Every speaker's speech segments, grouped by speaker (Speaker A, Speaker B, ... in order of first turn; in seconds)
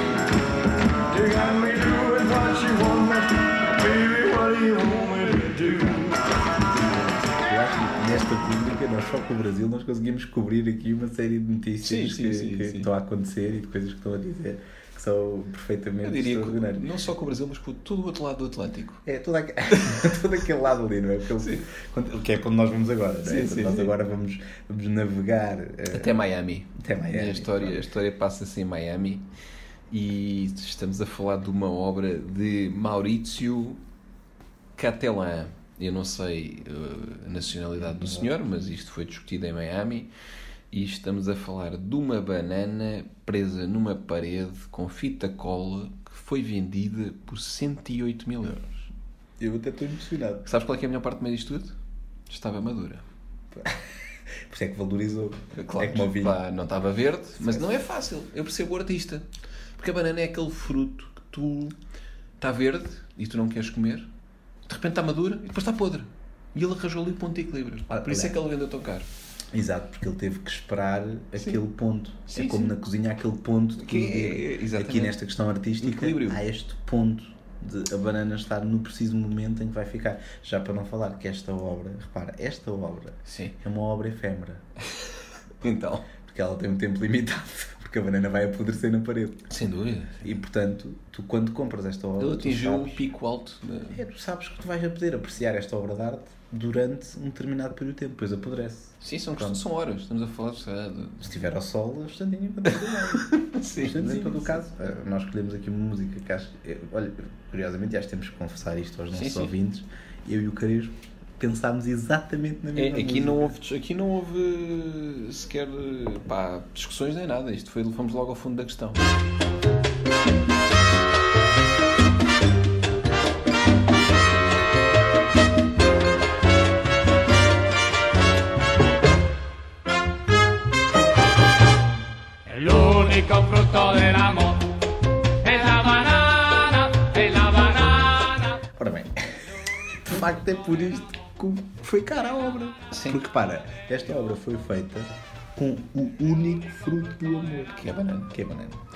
Speaker A: 1.1-6.4
Speaker B: 6.8-16.9, 19.1-26.1, 26.8-27.9, 37.8-38.3, 49.4-50.5, 54.5-56.4, 57.4-57.8, 67.9-68.4, 69.5-84.6, 86.2-89.5, 90.2-93.0, 93.9-99.6, 101.2-113.5, 138.7-139.2, 140.1-148.8
Speaker C: 11.8-12.9, 16.0-19.0, 19.8-20.0, 21.4-21.6, 23.2-23.9, 25.9-29.2, 29.9-33.8, 34.8-40.1, 40.7-48.9, 50.4-51.8, 52.3-53.0, 55.5-59.2, 59.8-61.7, 62.4-64.1, 64.7-69.1, 72.3-72.7, 73.8-75.2, 75.8-76.4, 83.2-83.5, 85.6-86.1, 89.5-90.3, 92.2-94.0, 99.0-101.5, 102.7-104.6, 109.1-109.5, 112.7-119.0, 142.9-143.2, 147.7-148.3
Speaker D: 132.5-134.8, 135.4-138.5